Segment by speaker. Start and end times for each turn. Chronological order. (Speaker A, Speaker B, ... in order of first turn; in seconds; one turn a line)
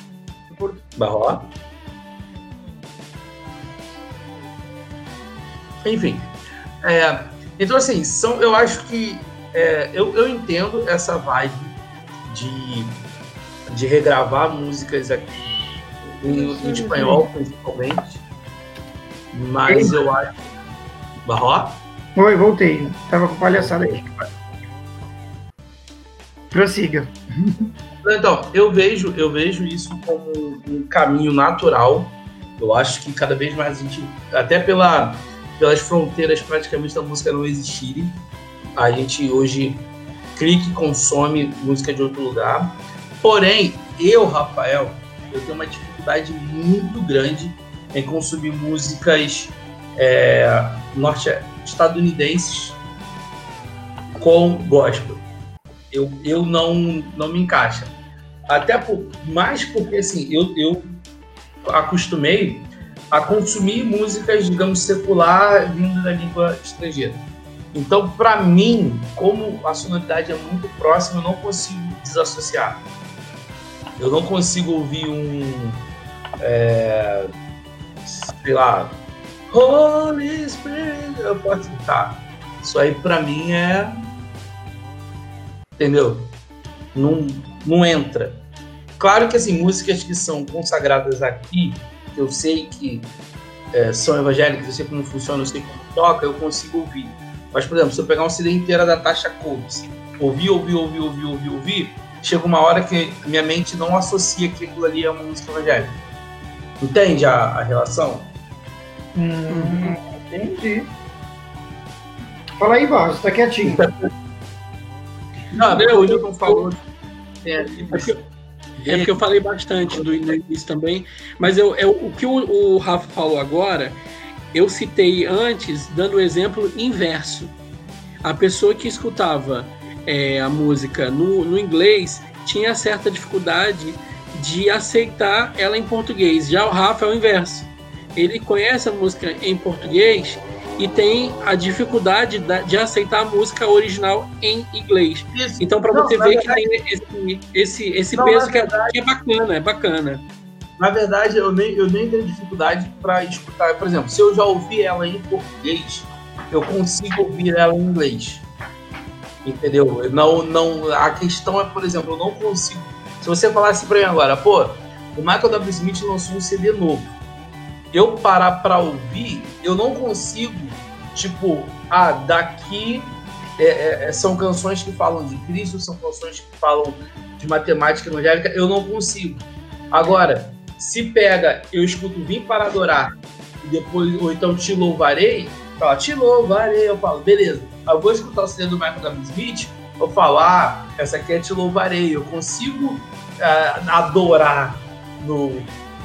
Speaker A: 0.5-0.8
Speaker B: 1.0-1.5
Speaker B: 5.8-6.3
Speaker B: 6.8-13.0
Speaker B: 13.7-15.4
Speaker B: 16.2-18.2
Speaker A: 16.2-17.3
Speaker B: 19.3-20.4
Speaker A: 19.7-20.0
Speaker B: 21.3-21.8
Speaker A: 22.2-24.2
Speaker B: 23.5-24.0
Speaker A: 26.5-27.7
Speaker B: 28.0-38.2
Speaker B: 38.8-39.9
Speaker B: 40.4-52.8
Speaker B: 54.2-55.3
Speaker B: 55.9-58.0
Speaker B: 58.5-61.0
Speaker B: 61.6-72.8
Speaker B: 74.0-75.8
Speaker B: 76.4-77.3
Speaker B: 78.1-83.9
Speaker B: 85.8-86.3
Speaker B: 86.9-88.4
Speaker B: 89.0-93.1
Speaker B: 93.7-106.0
Speaker B: 106.8-108.3
Speaker A: 109.2-110.9
Speaker C: 109.5-110.0
Speaker A: 112.6-113.8
Speaker B: 113.6-114.1
Speaker C: 115.5-116.7
Speaker B: 115.5-116.8
Speaker B: 117.4-118.3
Speaker B: 118.8-119.2
Speaker C: 118.9-124.0
Speaker B: 119.9-120.3
Speaker C: 124.5-127.5
Speaker C: 128.2-150.2
Speaker B: 145.3-146.7
Speaker B: 148.1-149.0
Speaker B: 150.8-158.5
Speaker B: 159.4-167.2
Speaker B: 167.9-195.7